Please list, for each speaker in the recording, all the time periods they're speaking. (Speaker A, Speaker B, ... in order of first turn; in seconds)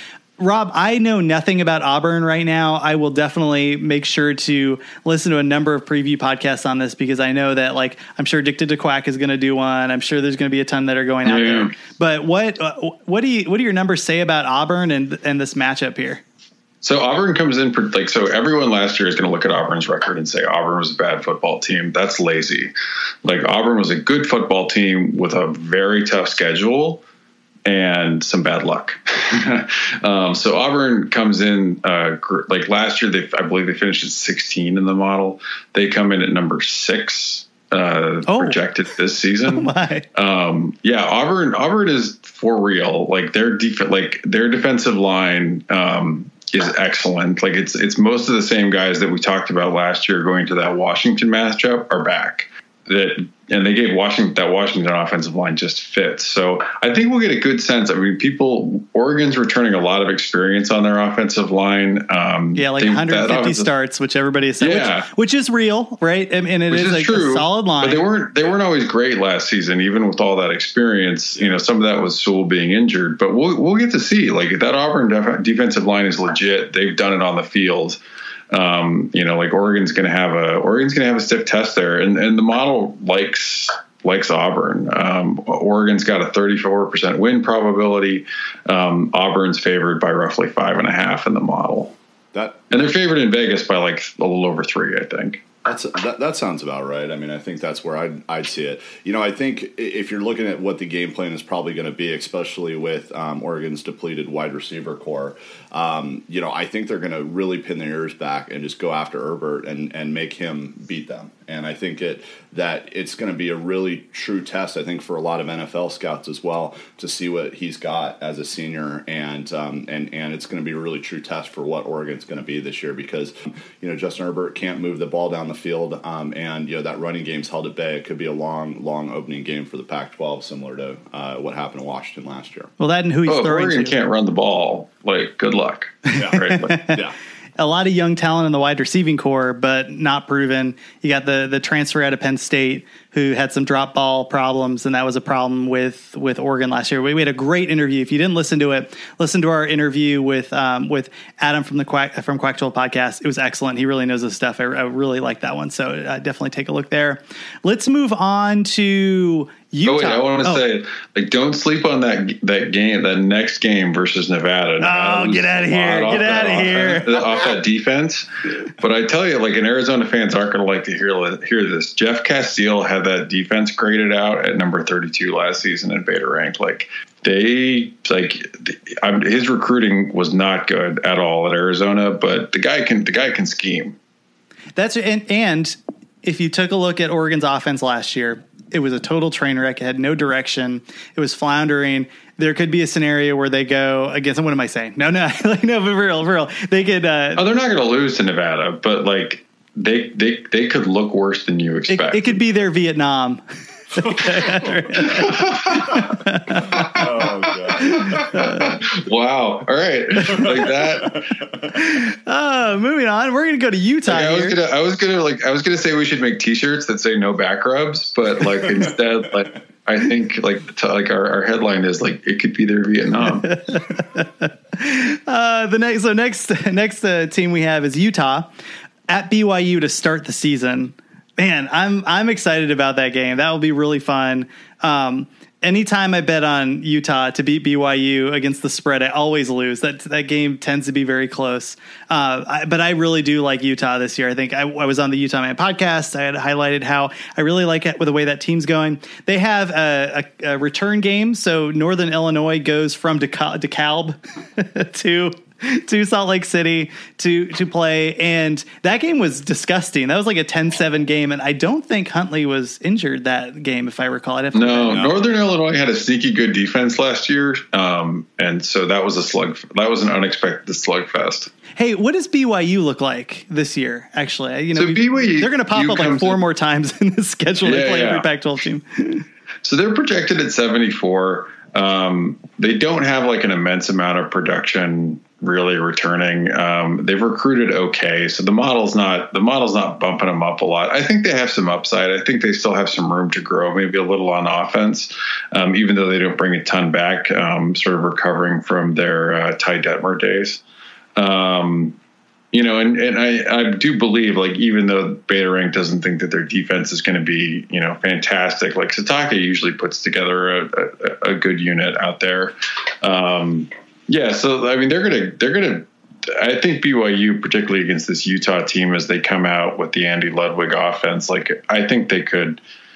Speaker A: 0.4-16.2, 38.3-38.6, 39.5-40.0, 62.5-68.0, 132.8-133.9, 136.1-136.9, 137.6-160.6, 164.8-167.2, 184.8-197.4, 201.9-203.4, 203.9-207.0, 208.1-208.7, 211.7-214.6, 223.4-228.5, 229.1-265.0, 271.8-279.2
Speaker B: 11.2-11.7, 16.8-22.7, 23.2-27.0, 27.6-63.7, 64.6-65.1, 66.7-78.0, 78.5-91.9, 92.7-95.4, 133.2-136.8, 159.8-168.3, 168.8-183.9, 197.3-202.4, 205.1-206.0, 208.1-211.3, 214.1-223.7, 264.5-271.5, 274.8-276.4, 277.6-278.3, 279.6-300.6, 301.1-301.9, 302.5-322.6
Speaker C: 71.3-71.6, 92.3-92.9, 95.6-132.7, 136.2-137.2, 204.0-204.7, 206.5-208.5, 210.3-211.4, 218.7-218.9, 264.9-265.3